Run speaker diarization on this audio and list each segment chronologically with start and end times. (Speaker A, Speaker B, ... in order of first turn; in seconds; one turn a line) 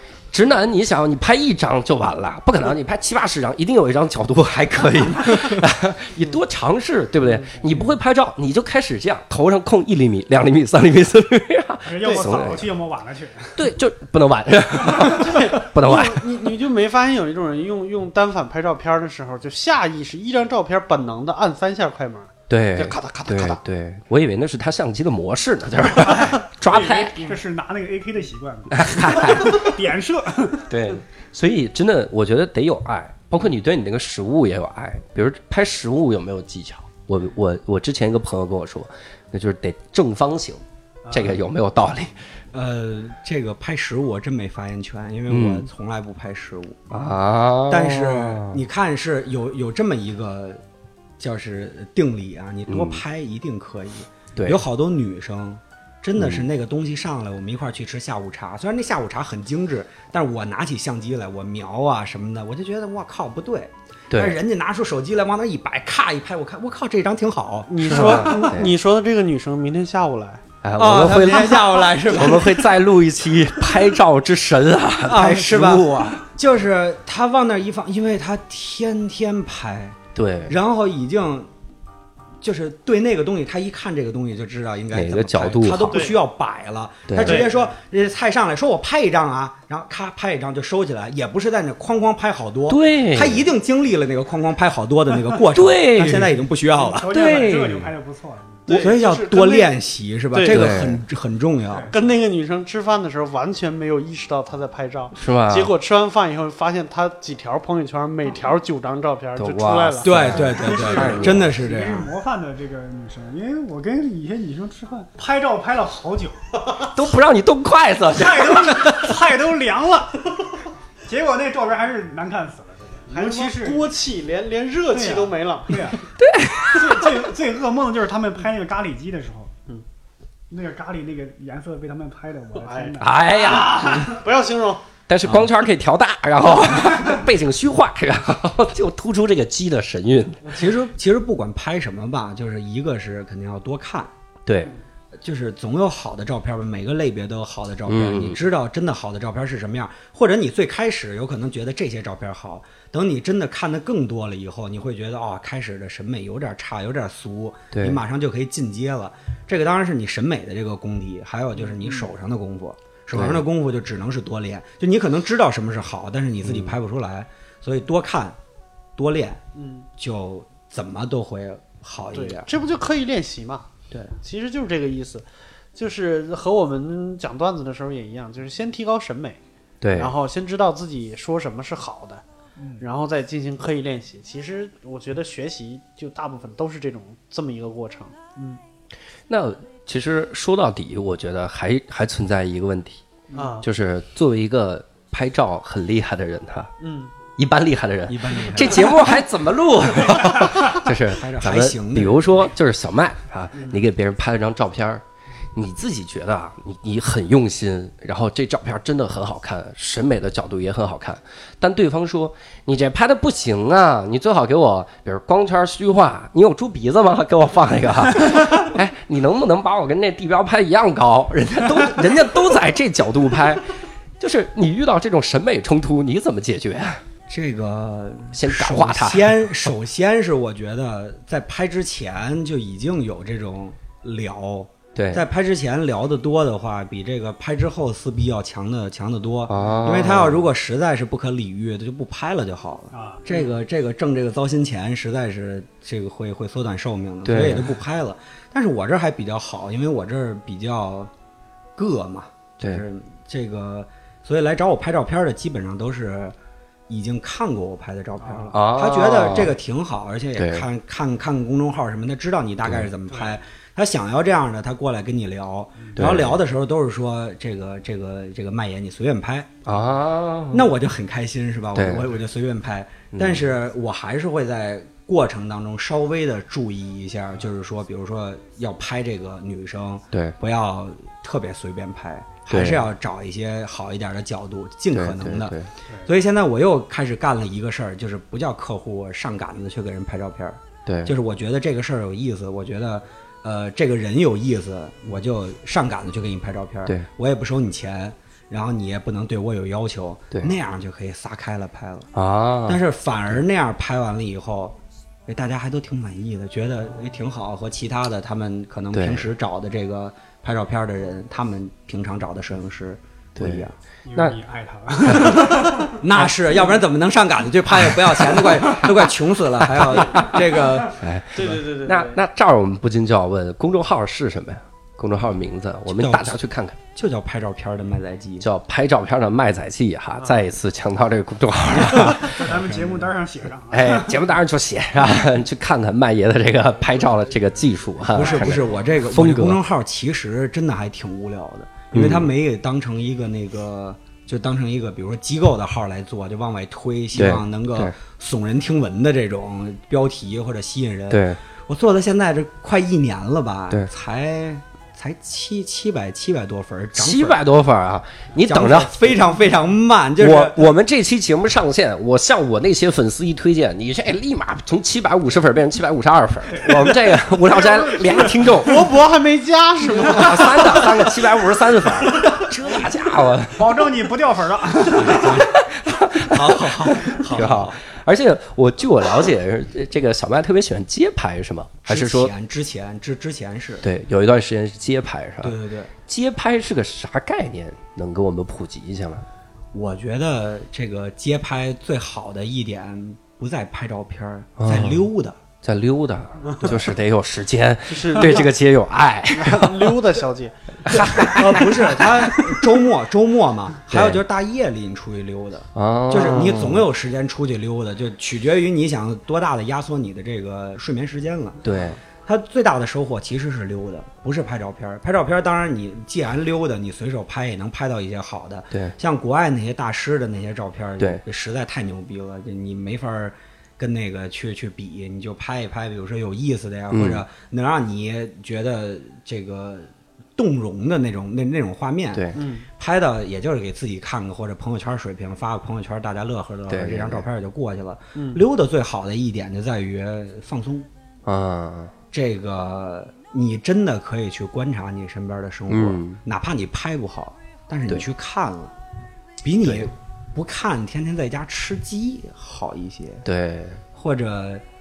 Speaker A: 0.3-12.7
Speaker B: 7.3-7.6
Speaker C: 7.6-7.9
Speaker C: 11.8-13.6
Speaker A: 13.6-16.2
Speaker C: 14.8-15.4
Speaker B: 15.1-23.6
Speaker A: 22.5-27.4
Speaker C: 26.0-30.6
Speaker A: 28.7-29.8
Speaker A: 30.7-42.2
Speaker D: 42.5-47.0
Speaker A: 45.3-45.7
Speaker A: 46.9-48.6
Speaker D: 47.7-50.6
Speaker D: 51.2-68.5
Speaker A: 52.7-53.0
Speaker A: 54.4-54.6
Speaker A: 56.2-56.4
Speaker A: 64.1-64.4
Speaker B: 67.7-70.4
Speaker A: 67.8-68.7
Speaker A: 70.6-76.2
Speaker D: 70.8-72.7
Speaker D: 75.0-81.5
Speaker A: 80.1-80.6
Speaker D: 82.4-97.2
Speaker A: 84.9-86.1
Speaker B: 85.9-86.2
Speaker A: 87.1-87.5
Speaker B: 87.2-87.5
Speaker C: 87.3-87.7
Speaker A: 92.7-93.5
Speaker A: 95.5-96.3
Speaker C: 96.0-98.7
Speaker A: 97.1-97.9
Speaker B: 98.7-99.7
Speaker D: 98.7-101.9
Speaker B: 100.3-100.7
Speaker A: 100.5-101.0
Speaker C: 101.7-102.0
Speaker B: 101.9-110.4
Speaker A: 105.1-105.7
Speaker A: 109.4-111.5
Speaker D: 110.0-112.1
Speaker C: 110.4-116.5
Speaker A: 116.8-119.1
Speaker C: 118.1-120.3
Speaker C: 121.0-123.9
Speaker B: 123.1-125.9
Speaker C: 124.9-126.0
Speaker A: 126.2-127.3
Speaker C: 126.7-129.5
Speaker C: 130.5-133.2
Speaker B: 132.6-134.8
Speaker A: 133.0-134.1
Speaker A: 135.1-140.5
Speaker D: 135.2-135.5
Speaker D: 140.5-144.1
Speaker A: 144.4-144.7
Speaker D: 145.2-168.4
Speaker A: 147.9-148.4
Speaker A: 157.7-158.0
Speaker A: 163.1-163.4
Speaker A: 166.4-166.7
Speaker D: 168.9-169.4
Speaker B: 169.5-169.9
Speaker D: 170.0-172.5
Speaker B: 172.1-179.4
Speaker A: 179.8-180.1
Speaker B: 179.9-182.2
Speaker C: 182.6-182.8
Speaker B: 182.8-188.6
Speaker A: 189.3-193.0
Speaker B: 193.3-193.7
Speaker A: 193.6-196.7
Speaker B: 196.8-197.1
Speaker A: 197.4-205.0
Speaker D: 198.1-199.1
Speaker D: 200.4-202.4
Speaker A: 205.5-223.6
Speaker A: 224.2-227.0
Speaker D: 227.3-251.1
Speaker A: 228.3-229.7
Speaker A: 234.9-235.2
Speaker A: 239.5-240.4
Speaker C: 242.9-243.3
Speaker A: 247.2-247.7
Speaker D: 251.8-256.4
Speaker D: 256.9-269.6
Speaker C: 258.2-258.5
Speaker A: 258.5-259.6
Speaker A: 260.4-260.6
Speaker C: 263.1-263.4
Speaker C: 265.8-266.1
Speaker A: 265.9-266.4
Speaker A: 269.6-270.7
Speaker D: 270.5-285.5
Speaker A: 271.7-272.1
Speaker A: 273.1-273.4
Speaker A: 282.5-282.9
Speaker A: 284.9-285.7
Speaker D: 286.1-302.1
Speaker A: 290.9-291.1
Speaker A: 302.1-302.8
Speaker D: 302.6-313.7
Speaker A: 308.9-309.3
Speaker A: 313.4-314.4
Speaker C: 314.1-316.0
Speaker A: 315.1-315.5
Speaker D: 315.9-321.0
Speaker A: 317.8-319.0
Speaker A: 319.6-326.8
Speaker B: 321.3-322.2
Speaker D: 325.9-326.4
Speaker D: 326.9-328.5
Speaker A: 328.4-332.6
Speaker D: 331.8-333.1
Speaker C: 332.2-334.3
Speaker A: 333.7-339.6
Speaker D: 338.1-357.4
Speaker C: 338.1-338.9
Speaker A: 341.9-342.3
Speaker A: 347.1-347.9
Speaker A: 351.1-351.4
Speaker A: 356.9-359.2
Speaker D: 358.4-360.7
Speaker A: 360.2-368.8
Speaker C: 366.5-368.8
Speaker B: 368.6-370.9
Speaker A: 369.9-373.9
Speaker C: 372.1-372.8
Speaker C: 373.5-375.4
Speaker A: 374.9-382.3
Speaker D: 374.9-375.5
Speaker D: 376.2-377.8
Speaker D: 381.9-383.8
Speaker A: 383.8-385.6
Speaker D: 385.4-385.9
Speaker A: 386.1-389.2
Speaker D: 389.7-395.4
Speaker A: 394.6-395.1
Speaker A: 395.6-400.1
Speaker B: 397.9-398.5
Speaker B: 399.3-401.4
Speaker A: 400.9-402.6
Speaker D: 400.9-440.9
Speaker A: 403.9-404.2
Speaker A: 405.7-406.9
Speaker A: 411.6-412.0
Speaker A: 426.9-427.2
Speaker B: 432.3-432.6
Speaker A: 436.7-437.2
Speaker B: 438.1-438.4
Speaker A: 441.2-441.9
Speaker D: 442.1-448.7
Speaker A: 445.7-446.2
Speaker D: 449.4-453.2
Speaker A: 453.2-453.8
Speaker D: 453.9-454.6